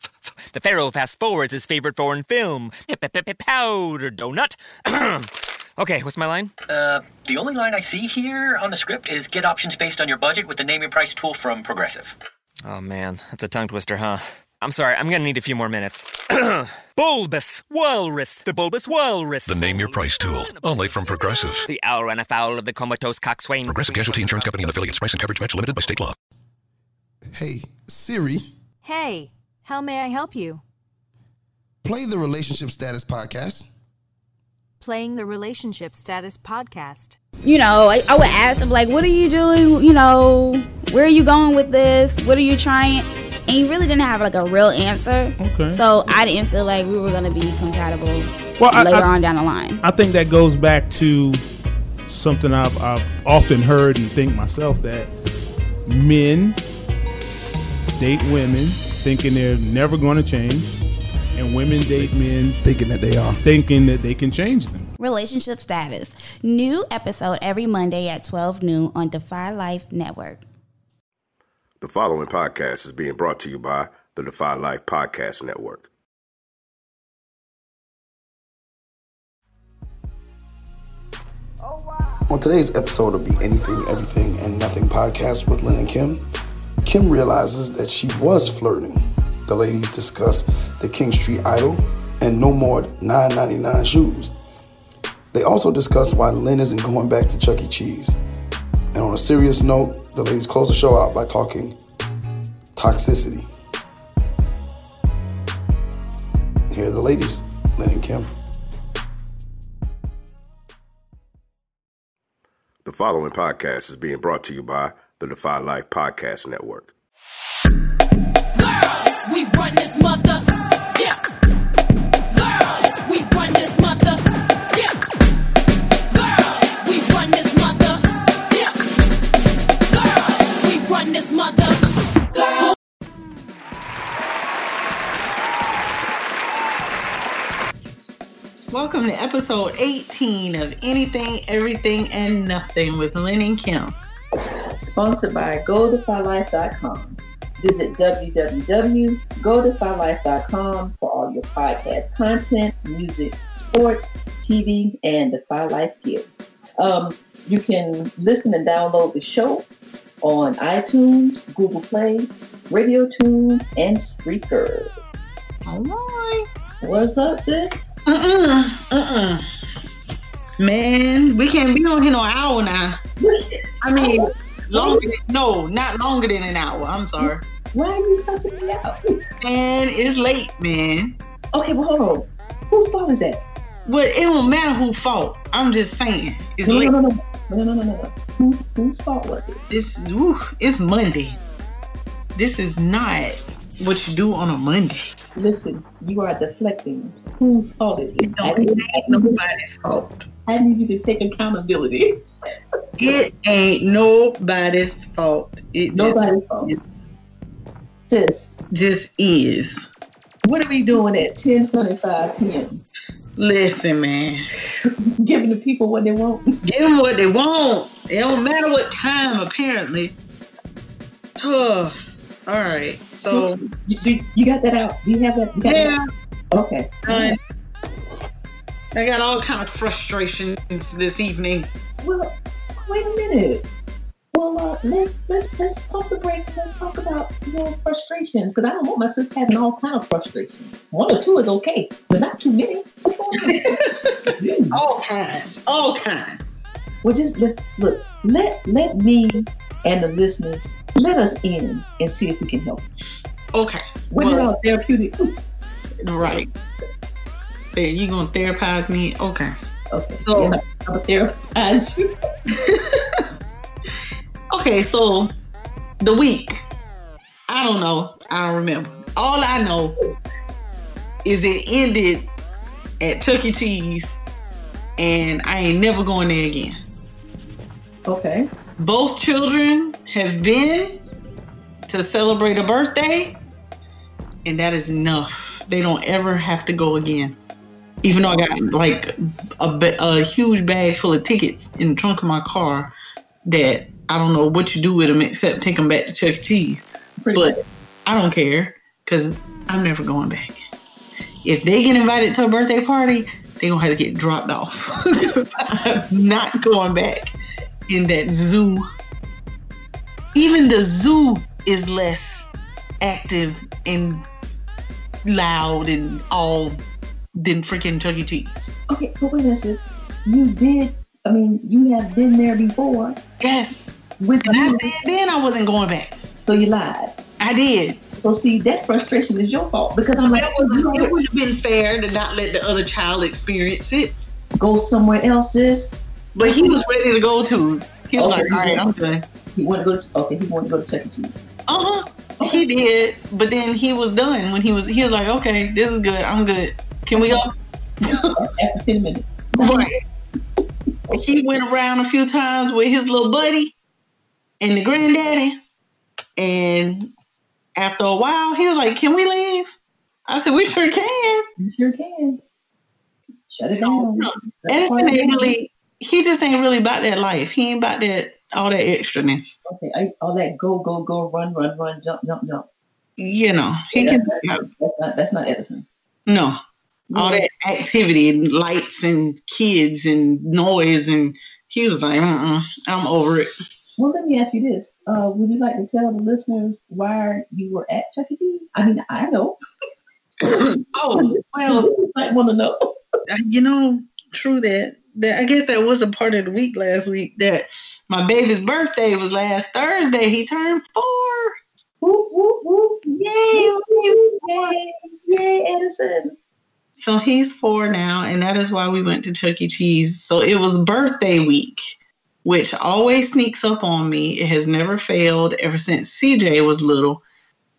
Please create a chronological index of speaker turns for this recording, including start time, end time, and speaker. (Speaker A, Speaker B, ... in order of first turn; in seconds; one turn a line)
Speaker A: 0.5-6.5
Speaker B: 6.7-12.2
Speaker A: 12.6-25.0
Speaker C: 19.5-21.7
Speaker C: 23.6-26.2
Speaker D: 27.4-28.4
Speaker E: 28.8-30.6
Speaker D: 31.8-33.7
Speaker E: 34.8-37.2
Speaker F: 37.4-49.8
Speaker G: 45.4-45.8
Speaker G: 48.6-49.1
Speaker G: 49.8-51.4
Speaker G: 52.1-55.1
Speaker G: 55.9-56.6
Speaker G: 58.0-60.7
Speaker G: 61.4-62.6
Speaker D: 62.6-63.4
Speaker G: 63.4-64.9
Speaker F: 65.0-70.4
Speaker H: 71.8-75.9
Speaker D: 82.3-86.2
Speaker D: 86.8-94.3
Speaker D: 95.3-98.2
Speaker D: 98.9-101.8
Speaker D: 102.8-103.5
Speaker D: 106.7-108.3
Speaker H: 112.8-116.9
Speaker I: 118.6-121.3
Speaker I: 122.3-125.1
Speaker I: 126.1-128.8
Speaker I: 129.9-132.8
Speaker J: 138.7-144.0
Speaker K: 144.8-156.3
Speaker K: 156.8-159.7
Speaker K: 160.2-164.9
Speaker J: 165.7-166.5
Speaker K: 166.8-167.9
Speaker J: 168.1-169.4
Speaker J: 170.6-173.0
Speaker K: 173.2-175.1
Speaker J: 173.8-177.4
Speaker K: 177.2-179.2
Speaker J: 179.4-181.2
Speaker K: 181.5-183.4
Speaker J: 183.9-186.9
Speaker K: 186.7-189.6
Speaker J: 189.7-191.4
Speaker J: 192.4-195.0
Speaker K: 195.4-199.4
Speaker J: 198.2-200.3
Speaker K: 200.5-202.2
Speaker J: 203.0-207.0
Speaker K: 205.9-206.7
Speaker K: 208.1-208.5
Speaker J: 208.7-209.9
Speaker K: 210.4-212.8
Speaker J: 213.4-214.4
Speaker K: 215.2-216.6
Speaker J: 216.6-220.2
Speaker J: 221.4-222.0
Speaker J: 222.5-223.6
Speaker K: 223.3-225.9
Speaker J: 225.7-226.1
Speaker K: 226.5-227.3
Speaker J: 227.1-227.4
Speaker J: 228.9-231.7
Speaker K: 232.0-233.6
Speaker K: 234.3-243.8
Speaker J: 243.4-246.4
Speaker K: 244.3-244.9
Speaker K: 247.0-252.8
Speaker J: 253.6-254.5
Speaker K: 254.1-255.2
Speaker J: 256.0-256.5
Speaker J: 257.7-259.5
Speaker K: 259.9-262.1
Speaker J: 260.3-260.6
Speaker J: 262.5-263.2
Speaker J: 264.5-265.3
Speaker J: 266.0-266.6
Speaker J: 267.5-270.0
Speaker J: 271.2-272.3
Speaker J: 273.0-274.2
Speaker J: 275.0-276.8
Speaker K: 278.1-278.5
Speaker J: 278.8-281.0
Speaker J: 281.9-283.4
Speaker J: 284.4-287.4
Speaker J: 288.0-292.9
Speaker J: 293.5-297.6
Speaker K: 297.2-297.6
Speaker J: 298.1-300.6
Speaker J: 301.4-307.3
Speaker J: 307.9-308.9
Speaker J: 310.3-312.5
Speaker J: 313.0-314.2
Speaker J: 315.2-316.8
Speaker J: 317.4-318.7
Speaker K: 318.9-323.2
Speaker J: 323.4-323.9
Speaker K: 324.2-324.9
Speaker J: 324.4-326.2
Speaker K: 326.5-327.1
Speaker J: 327.4-328.0
Speaker K: 328.2-331.1
Speaker J: 330.3-334.1
Speaker K: 334.6-336.9
Speaker J: 336.4-339.2
Speaker K: 338.2-338.8
Speaker K: 339.6-341.4
Speaker J: 341.7-347.5
Speaker K: 347.1-347.4
Speaker J: 348.1-348.3
Speaker K: 348.1-349.9
Speaker J: 349.6-350.0
Speaker J: 351.1-353.7
Speaker J: 354.6-355.6
Speaker J: 356.4-357.1
Speaker J: 357.8-359.8
Speaker J: 360.3-361.4
Speaker K: 361.6-362.4
Speaker K: 363.5-365.5
Speaker J: 363.8-369.6
Speaker K: 369.6-372.7
Speaker J: 373.2-374.6
Speaker K: 373.9-375.9
Speaker J: 376.3-376.6
Speaker K: 377.1-377.5
Speaker J: 377.1-383.5
Speaker K: 384.0-389.6
Speaker K: 390.4-392.8
Speaker J: 390.5-391.9
Speaker J: 393.3-401.5
Speaker K: 402.0-406.4
Speaker J: 403.1-404.8
Speaker J: 407.0-411.8
Speaker J: 412.4-417.2